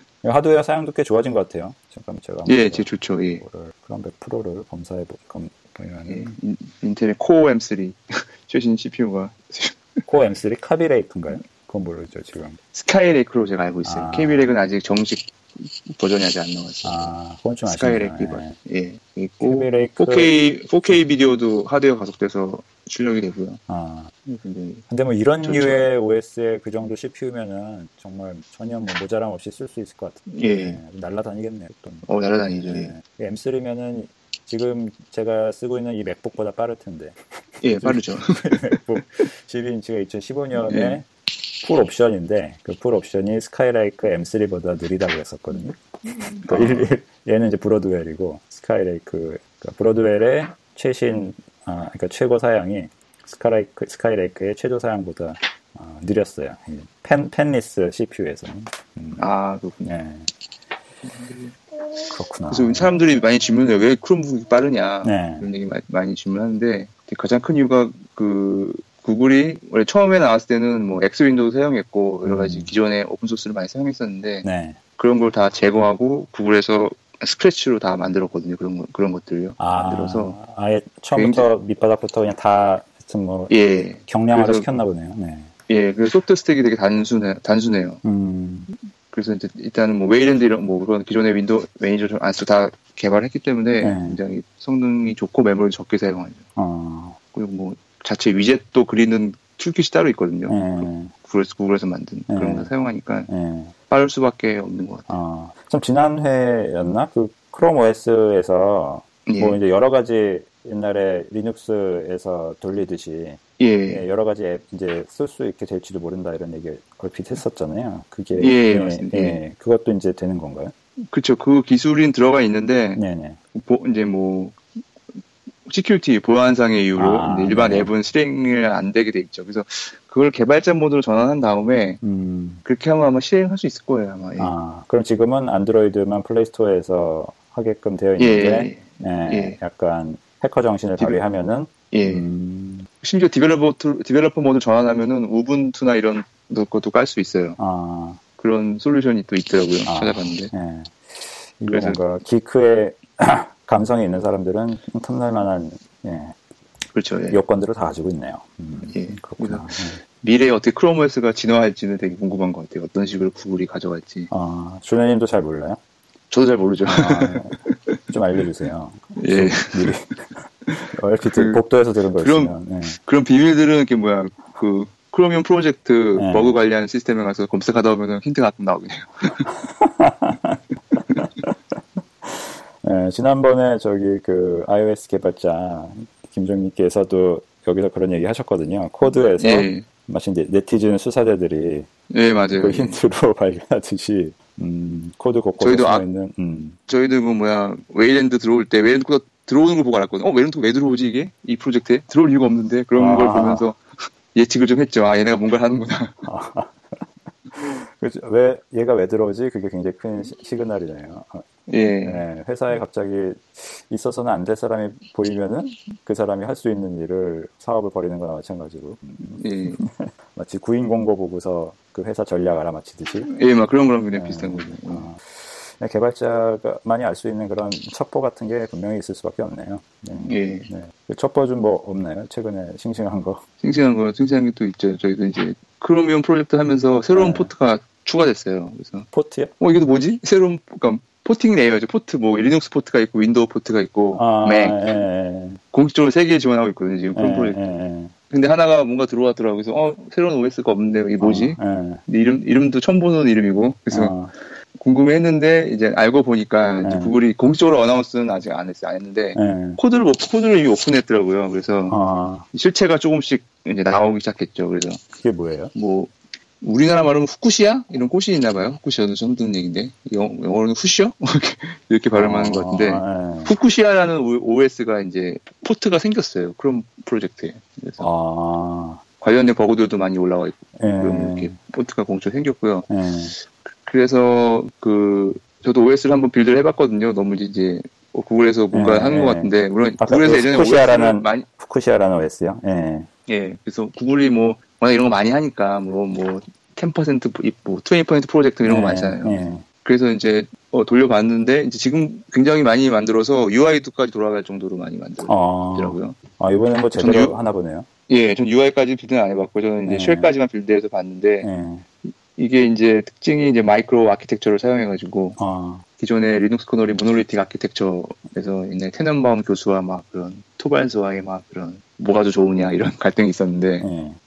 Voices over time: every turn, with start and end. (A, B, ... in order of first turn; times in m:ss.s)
0:00.2-0:06.4 A
0:02.5-0:03.4 B
0:06.1-0:09.8 B
0:10.1-0:12.6 A
0:12.7-0:17.1 B
0:13.8-0:14.5 A
0:16.8-0:18.6 A
0:17.6-0:23.6 B
0:19.4-0:20.3 A
0:23.7-0:24.1 A
0:24.3-0:24.8 B
0:24.9-0:41.1 A
0:25.4-0:25.8 B
0:30.3-0:30.8 B
0:32.1-0:32.9 B
0:37.6-0:38.8 B
0:40.7-0:41.0 B
0:41.6-0:45.8 A
0:46.3-0:46.9 B
0:46.4-0:59.3 A
0:59.2-0:59.9 B
0:59.8-1:00.3 A
1:01.0-1:01.6 B
1:02.1-1:03.0 A
1:02.5-1:14.4 B
1:05.0-1:05.5 A
1:12.2-1:12.7 A
1:14.4-1:14.8 A
1:15.0-1:20.4 B
1:19.6-1:23.5 A
1:21.1-1:21.5 B
1:23.5-1:24.7 B
1:24.1-1:25.5 A
1:25.7-1:28.0 B
1:28.0-1:28.7 A
1:29.1-1:36.4 B
1:33.8-1:34.2 A
1:36.6-1:37.2 A
1:37.3-1:43.3 B
1:40.5-1:41.1 A
1:42.3-1:42.7 A
1:43.3-1:43.7 A
1:43.9-1:45.1 B
1:45.1-2:00.7 A
1:49.3-1:49.6 B
1:53.6-1:54.0 B
1:58.4-1:59.4 B
2:01.1-2:03.0 B
2:03.0-2:03.4 A
2:03.5-2:04.6 B
2:05.7-2:12.0 B
2:07.0-2:07.9 A
2:12.0-2:12.6 A
2:12.6-2:14.5 B
2:14.4-2:22.9 A
2:18.2-2:19.6 B
2:21.9-2:22.3 B
2:23.0-2:27.6 B
2:27.6-2:28.2 A
2:28.4-2:30.5 B
2:29.9-2:36.4 A
2:31.7-2:32.0 B
2:36.9-2:37.4 B
2:37.3-2:40.0 A
2:38.9-2:44.3 B
2:44.3-2:45.8 A
2:46.3-2:47.9 B
2:46.9-2:53.0 A
2:49.2-2:49.9 B
2:50.7-2:51.6 B
2:52.2-2:59.4 B
2:56.2-2:56.5 A
2:59.5-3:00.6 A
3:01.2-3:01.5 A
3:02.2-3:11.9 A
3:09.4-3:09.8 B
3:12.1-3:13.0 B
3:12.6-3:16.8 A
3:15.6-3:16.0 B
3:16.9-3:23.8 B
3:23.0-3:23.7 A
3:24.3-3:26.2 B
3:26.2-3:27.0 A
3:27.6-3:31.5 A
3:31.7-3:32.2 B
3:32.0-3:43.3 A
3:39.4-3:39.8 B
3:43.3-3:45.1 B
3:44.1-3:53.4 A
3:50.2-3:50.7 B
3:53.6-3:59.1 B
3:57.1-3:57.5 A
3:59.1-3:59.5 A
3:59.6-4:04.8 B
4:04.1-4:05.6 A
4:05.7-4:07.6 B
4:07.2-4:08.1 A
4:08.3-4:14.2 B
4:11.2-4:12.0 A
4:13.9-4:14.3 A
4:14.8-4:22.0 B
4:16.8-4:17.2 A
4:19.4-4:19.8 A
4:21.9-4:22.5 A
4:22.5-4:25.0 B
4:25.2-4:25.7 A
4:25.7-4:38.1 B
4:32.1-4:33.5 A
4:38.0-4:39.0 A
4:39.2-4:42.9 B
4:40.8-4:41.6 A
4:42.9-4:43.4 A
4:43.6-4:51.5 B
4:48.7-4:53.1 A
4:53.3-5:06.2 B
4:58.6-4:59.6 A
5:05.3-5:07.9 A
5:07.0-5:07.4 B
5:08.1-5:11.5 B
5:09.8-5:10.3 A
5:11.4-5:11.8 A
5:12.4-5:15.4 B
5:15.4-5:15.8 A
5:16.0-5:23.9 B
5:23.8-5:24.2 A